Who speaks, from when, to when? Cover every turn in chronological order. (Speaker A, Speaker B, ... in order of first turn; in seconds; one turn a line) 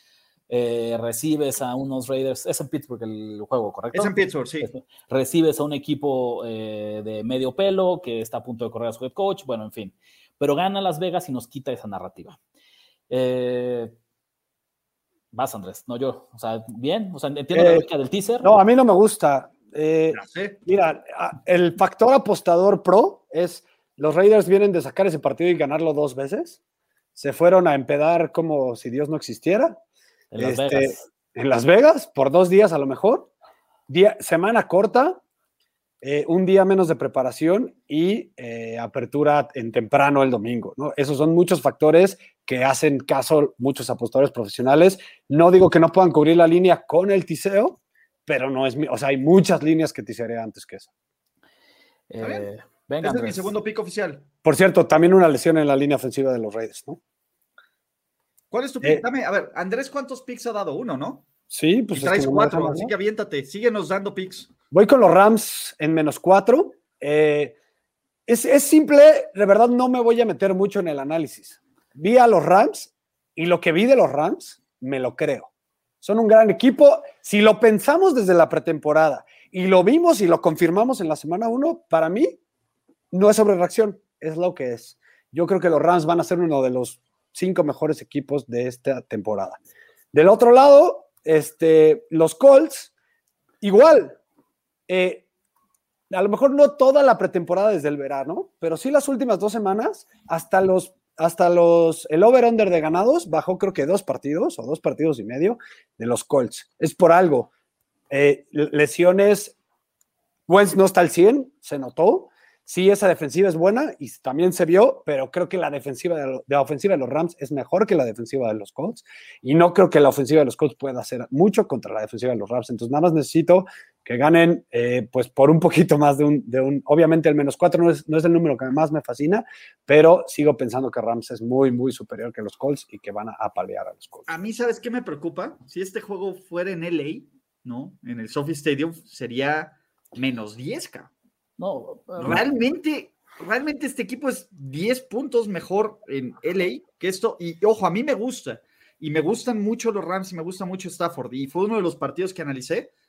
Speaker A: 0.5-12.4
Speaker B: 3.9-4.7
Speaker A: 13.1-13.9
Speaker A: 15.3-18.6
Speaker C: 17.5-17.9
Speaker C: 18.4-26.6
Speaker B: 20.1-20.6
Speaker C: 27.2-29.8
Speaker A: 30.3-31.1
Speaker C: 30.4-33.3
Speaker C: 33.9-35.2
Speaker C: 36.0-50.9
Speaker A: 52.1-53.5
Speaker B: 52.2-52.5
Speaker B: 53.0-54.3
Speaker C: 54.5-57.0
Speaker B: 58.5-61.3
Speaker C: 61.5-62.9
Speaker B: 61.9-64.5
Speaker C: 64.7-67.5
Speaker C: 68.3-75.5
Speaker C: 76.0-82.4
Speaker C: 83.1-89.6
Speaker C: 90.1-92.9
Speaker C: 93.6-94.2
Speaker C: 94.9-95.2
Speaker C: 96.1-107.5
Speaker C: 108.1-109.5
Speaker C: 110.5-134.3
Speaker B: 134.3-141.1
Speaker A: 141.6-142.4
Speaker B: 142.2-152.9